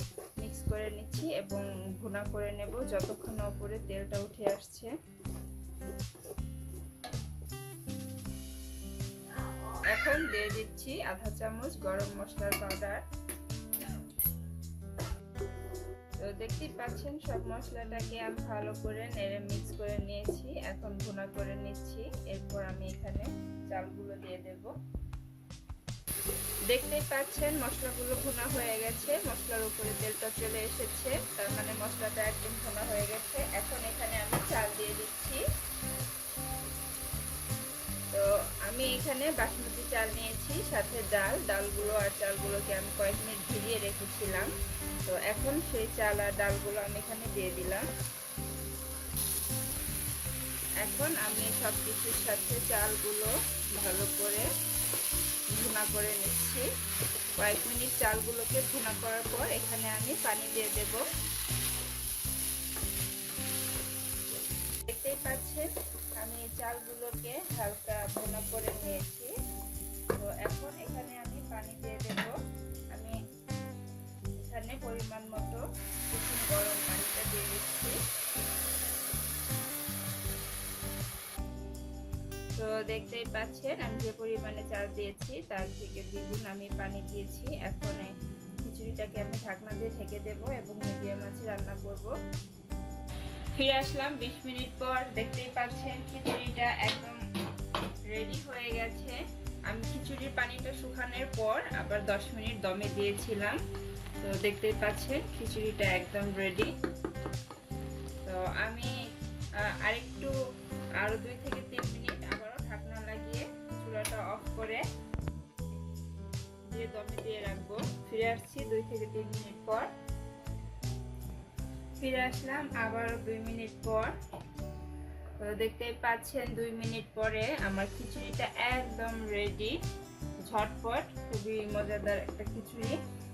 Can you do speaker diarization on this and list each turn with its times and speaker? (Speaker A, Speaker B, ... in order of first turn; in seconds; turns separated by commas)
Speaker A: 0.4-4.9, Speaker A: 9.9-13.0, Speaker A: 16.2-24.7, Speaker A: 26.7-35.4, Speaker A: 38.1-44.5, Speaker A: 45.1-47.9, Speaker A: 50.8-54.5, Speaker A: 55.5-56.7, Speaker A: 57.4-61.0, Speaker A: 64.9-69.3, Speaker A: 70.2-72.3, Speaker A: 74.4-78.0, Speaker A: 82.5-88.1, Speaker A: 88.6-92.1, Speaker A: 93.5-97.2, Speaker A: 98.1-103.6, Speaker A: 104.2-106.7, Speaker A: 108.2-108.9, Speaker A: 109.6-110.3, Speaker A: 111.0-114.8, Speaker A: 116.7-119.9, Speaker A: 122.0-124.1, Speaker A: 125.4-129.8, Speaker A: 130.4-133.0